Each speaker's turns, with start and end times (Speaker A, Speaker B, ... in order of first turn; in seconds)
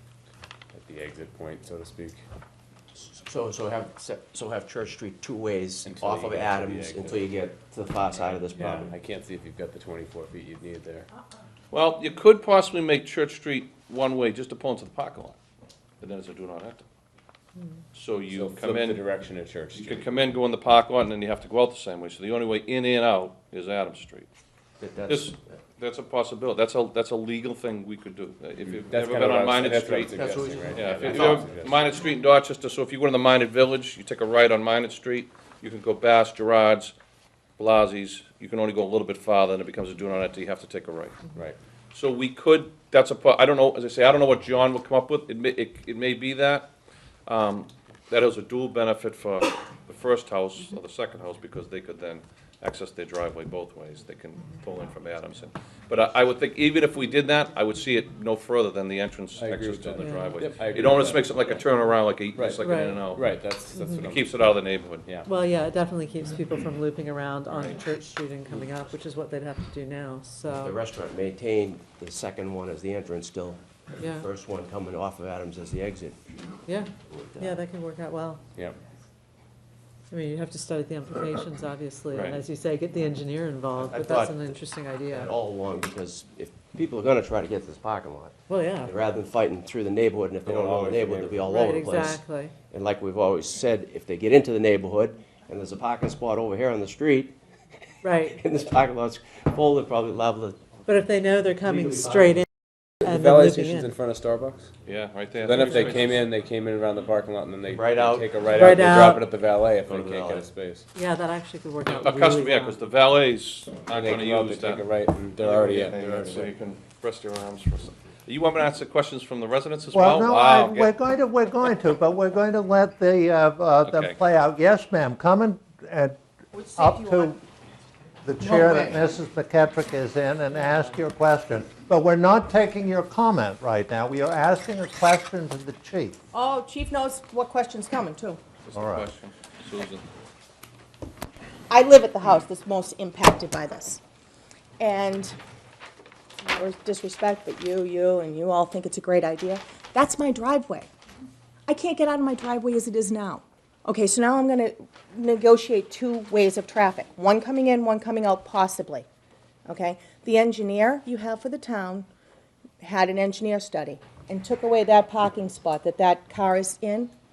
Speaker A: 0.7-2.2, 5.8-7.3, 8.2-11.1, 18.3-20.3, 28.7-31.8, 59.4-61.6, 62.3-64.3, 90.4-91.5, 103.0-104.7, 105.4-110.9, 113.9-116.5
Speaker B: 3.0-8.9, 24.8-25.6, 30.1-31.5, 70.4-76.2, 77.1-77.6, 83.7-88.3, 88.8-97.4, 98.2-100.8, 107.7-109.1, 109.8-110.5
Speaker C: 11.7-15.4, 16.0-16.8, 17.9-19.0, 19.7-24.3, 25.1-30.1, 30.7-36.9, 37.6-41.2, 41.9-46.7, 47.2-63.3, 64.0-65.1, 67.5-67.8, 82.1-82.4, 104.8-106.2, 111.9-114.9, 115.4-120.9, 123.8-124.2, 138.7-140.1
Speaker D: 60.0-60.4, 62.6-63.1, 63.7-64.2, 65.2-70.8, 74.0-74.3, 76.7-78.4, 80.1-85.3, 88.5-88.9, 91.4-92.6, 98.0-98.4, 100.8-102.5, 103.0-103.9, 105.6-105.9, 108.5-109.2, 110.9-112.8
Speaker E: 119.9-126.2, 126.8-127.4, 128.2-136.2, 138.7-139.1
Speaker F: 126.5-127.3, 128.4-129.1, 136.3-138.4, 141.7-144.0, 144.8-145.3, 146.4-150.9, 151.7-159.1, 159.7-162.1, 162.8-167.1